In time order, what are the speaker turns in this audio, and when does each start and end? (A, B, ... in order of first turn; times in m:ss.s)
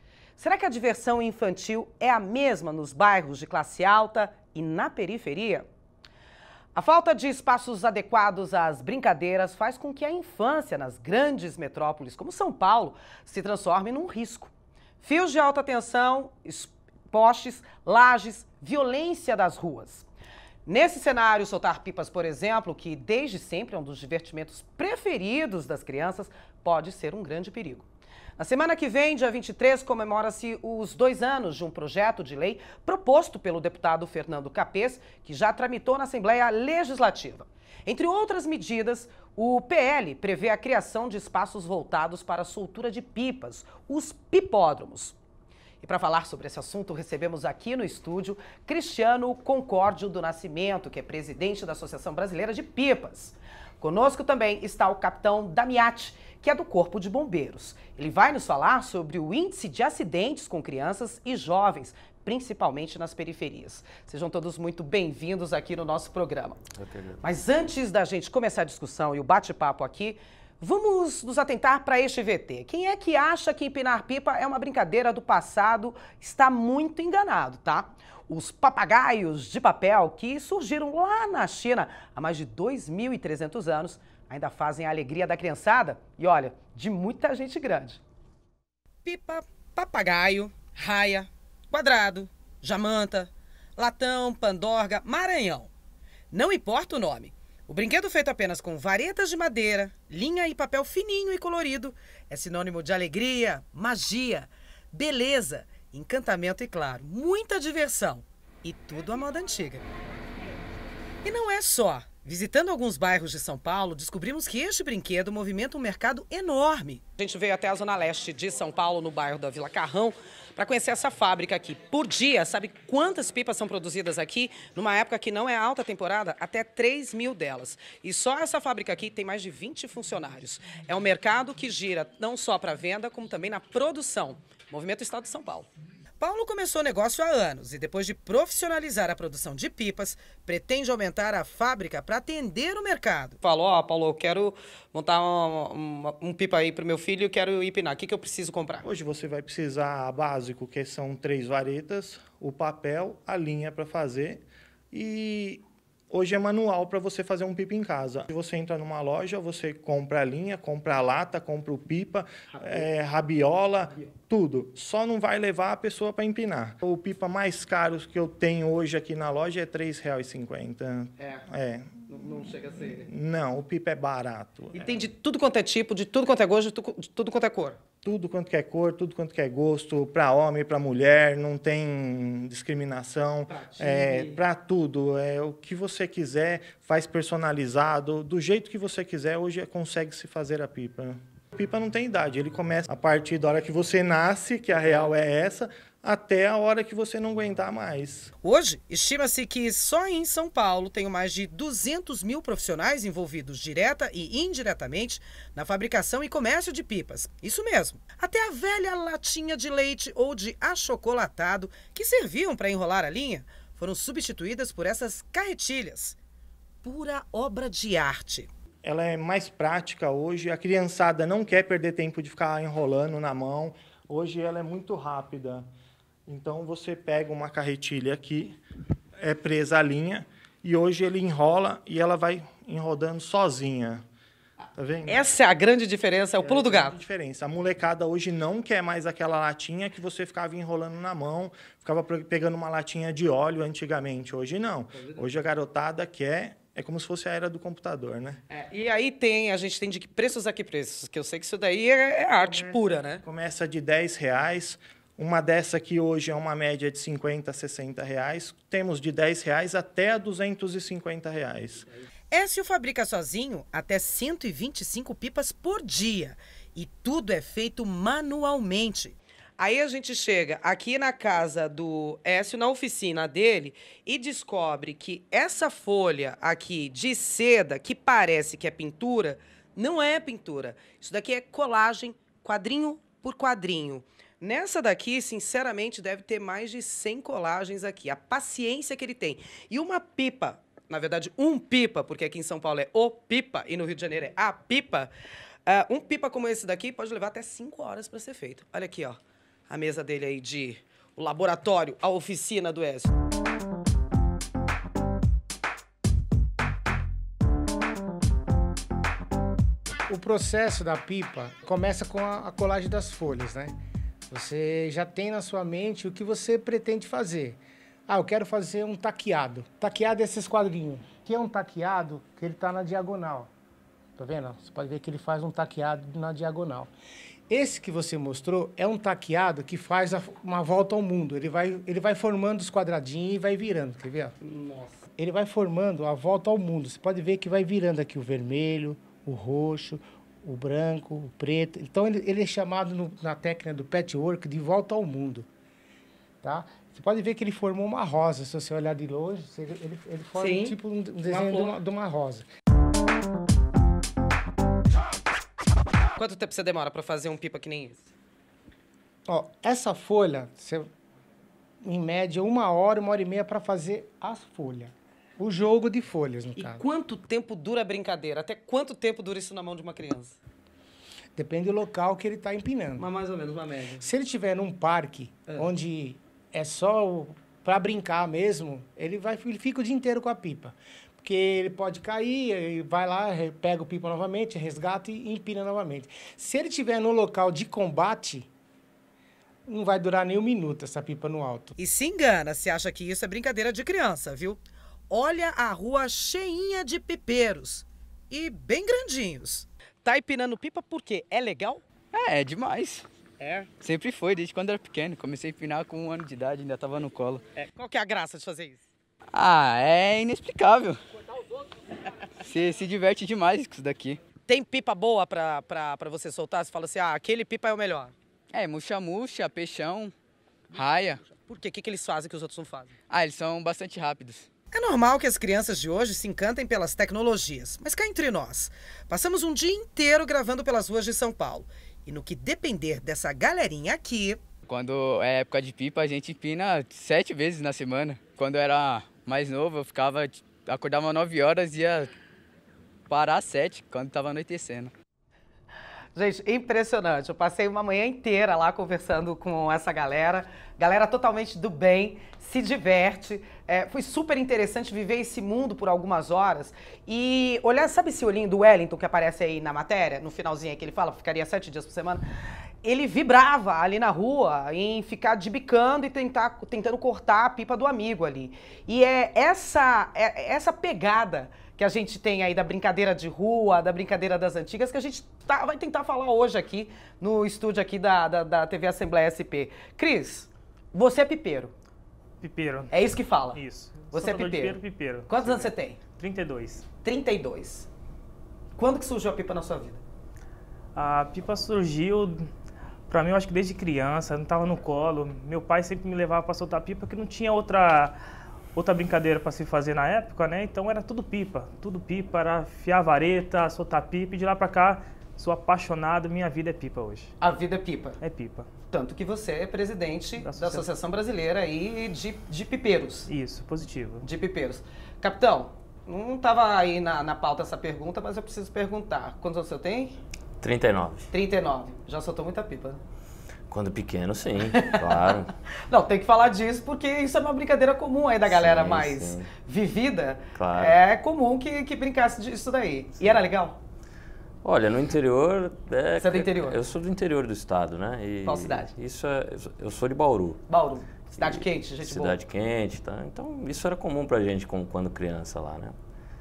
0:00.4-0:05.7 A
0:06.8-0:14.5 A
0:15.0-0:20.1 A
0:20.6-0:27.9 A
0:28.4-0:45.2 A
0:45.8-1:06.6 A
1:06.8-1:07.2 B
1:07.2-1:28.0 A
1:29.0-1:35.7 A
1:36.3-1:49.9 A
1:51.2-2:15.7 A
2:16.2-2:28.8 A
2:28.8-2:55.1 C
2:52.1-2:53.1 A
2:54.7-2:57.8 A
2:58.0-3:18.3 C
3:03.5-3:04.4 A
3:18.4-3:36.2 A
3:36.8-3:38.5 A
3:38.8-3:45.7 C
3:46.2-3:48.6 C
3:49.2-3:54.0 C
3:54.7-3:55.2 C
3:55.1-3:56.9 A
3:56.4-4:08.4 C
4:08.5-4:13.2 A
4:12.4-4:21.9 C
4:22.3-4:55.1 A
4:55.7-5:03.1 A
5:10.1-5:13.8 D
5:14.3-5:23.5 D
5:24.2-5:26.9 D
5:27.5-5:34.4 D
5:34.4-5:35.0 A
5:35.2-5:45.5 D
5:46.4-5:52.5 D
5:50.4-5:51.7 A
5:56.2-5:58.1 A
5:59.3-6:00.9 D
6:01.8-6:06.8 D
6:06.6-6:10.4 A
6:11.4-6:13.1 D
6:13.0-6:14.0 A
6:14.0-6:28.5 D
6:29.7-6:31.8 D
6:31.8-6:41.8 A
6:42.1-6:43.1 E
6:43.4-6:43.7 A
6:43.8-6:47.4 E
6:47.6-6:48.8 A
6:49.3-6:51.0 E
6:52.4-6:54.2 E
6:54.5-6:58.1 A
6:58.5-7:00.1 E
7:00.7-7:01.2 E
7:01.3-7:02.9 A
7:03.1-7:04.5 E
7:04.7-7:14.4 A
7:14.7-7:22.1 E
7:23.1-7:24.9 E
7:26.2-7:42.2 A
7:42.8-8:01.7 A
8:02.4-8:02.9 F
8:02.9-8:03.6 A
8:03.5-8:06.9 F
8:04.1-8:06.0 A
8:07.0-8:07.9 A
8:08.8-8:10.0 A
8:11.0-8:12.5 F
8:13.1-8:18.1 F
8:18.8-8:27.3 F
8:27.4-8:28.2 A
8:28.2-8:28.7 F
8:28.9-8:33.3 A
8:30.4-8:30.9 F
8:33.3-8:34.2 F
8:34.2-8:40.2 A
8:40.6-8:41.3 B
8:41.3-8:43.0 A
8:43.7-8:45.5 B
8:44.7-8:45.4 A
8:45.9-8:53.8 A
8:48.5-8:49.5 B
8:50.6-8:51.0 B
8:54.6-9:00.6 B
8:56.2-8:56.8 A
8:58.4-8:58.9 A
9:00.7-9:02.4 A
9:01.3-9:06.0 B